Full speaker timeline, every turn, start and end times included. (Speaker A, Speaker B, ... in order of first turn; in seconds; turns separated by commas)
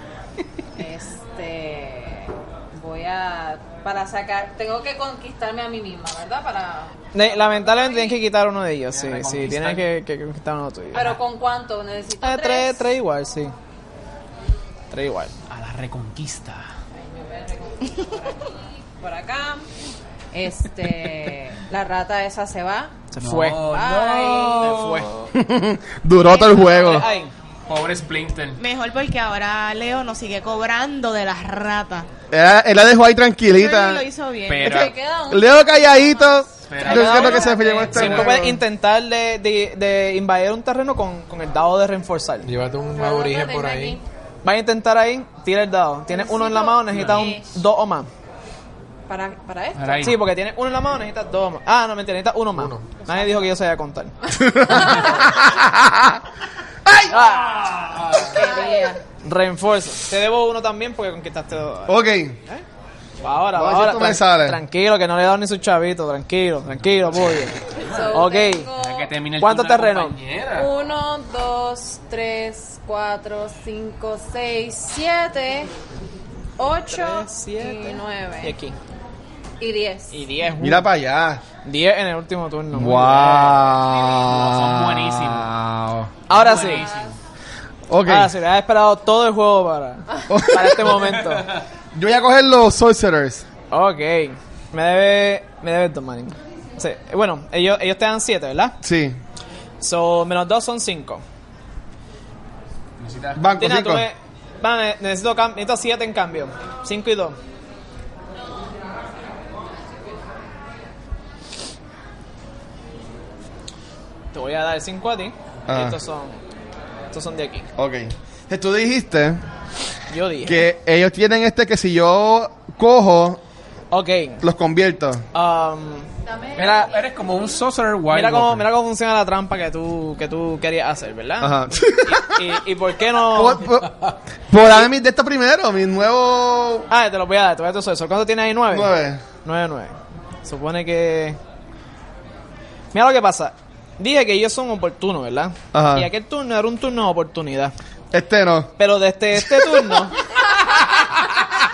Speaker A: 0.8-8.2, Speaker B: 7.1-11.2, Speaker C: 8.9-9.8, Speaker A: 10.9-12.9, Speaker B: 12.2-13.5, Speaker B: 14.9-15.3, Speaker C: 15.5-16.7, Speaker A: 17.0-19.6, Speaker A: 20.3-22.9, Speaker B: 23.1-25.2, Speaker C: 23.2-25.3, Speaker A: 23.7-24.7, Speaker D: 25.3-27.1, Speaker B: 26.5-27.3, Speaker C: 27.7-28.6, Speaker E: 28.6-32.1, Speaker D: 32.3-34.0, Speaker E: 33.5-34.9, Speaker C: 34.5-34.9, Speaker A: 34.6-38.0, Speaker D: 35.3-38.6, Speaker C: 36.7-38.5, Speaker B: 36.9-42.5, Speaker F: 42.4-44.0, Speaker A: 42.9-44.0, Speaker B: 44.4-48.1, Speaker A: 46.1-47.5, Speaker C: 46.9-47.3, Speaker A: 49.1-50.1, Speaker C: 49.8-50.2, Speaker B: 50.0-54.2, Speaker F: 52.5-52.9, Speaker D: 54.3-56.2, Speaker A: 54.7-55.0, Speaker D: 56.9-57.2, Speaker B: 57.1-62.6, Speaker A: 58.3-59.0, Speaker D: 61.9-62.4, Speaker B: 63.2-68.7, Speaker D: 63.5-64.6, Speaker C: 67.1-70.7, Speaker A: 67.8-69.1, Speaker B: 69.4-70.2, Speaker A: 70.5-75.7, Speaker A: 76.6-78.5, Speaker B: 76.9-78.8, Speaker A: 79.6-80.2, Speaker B: 80.1-80.9, Speaker D: 80.6-81.5, Speaker B: 81.5-83.7, Speaker D: 82.7-86.2, Speaker C: 84.2-85.5, Speaker B: 86.3-86.9, Speaker C: 86.3-87.1, Speaker A: 86.6-87.1, Speaker D: 87.9-88.3, Speaker B: 88.0-91.5, Speaker D: 90.3-91.1, Speaker D: 91.9-93.5, Speaker B: 93.7-98.8, Speaker D: 98.8-99.2, Speaker B: 99.8-101.2, Speaker C: 103.0-103.5, Speaker D: 103.4-104.1, Speaker B: 103.5-107.4, Speaker B: 114.3-116.4, Speaker D: 115.7-116.0, Speaker B: 117.1-117.7, Speaker D: 117.8-119.4, Speaker B: 120.1-120.7, Speaker D: 120.5-123.4, Speaker B: 123.9-124.4, Speaker D: 124.4-125.2, Speaker B: 125.3-126.9, Speaker A: 126.2-127.4, Speaker C: 126.6-128.7, Speaker B: 128.1-133.7, Speaker D: 131.4-132.5, Speaker D: 133.3-133.9, Speaker D: 134.5-136.9, Speaker B: 134.6-134.9, Speaker B: 136.9-139.9, Speaker D: 138.7-139.3, Speaker B: 140.4-141.4, Speaker B: 142.9-147.7, Speaker D: 145.7-146.1, Speaker D: 148.1-148.7, Speaker B: 148.8-150.2, Speaker D: 149.6-149.9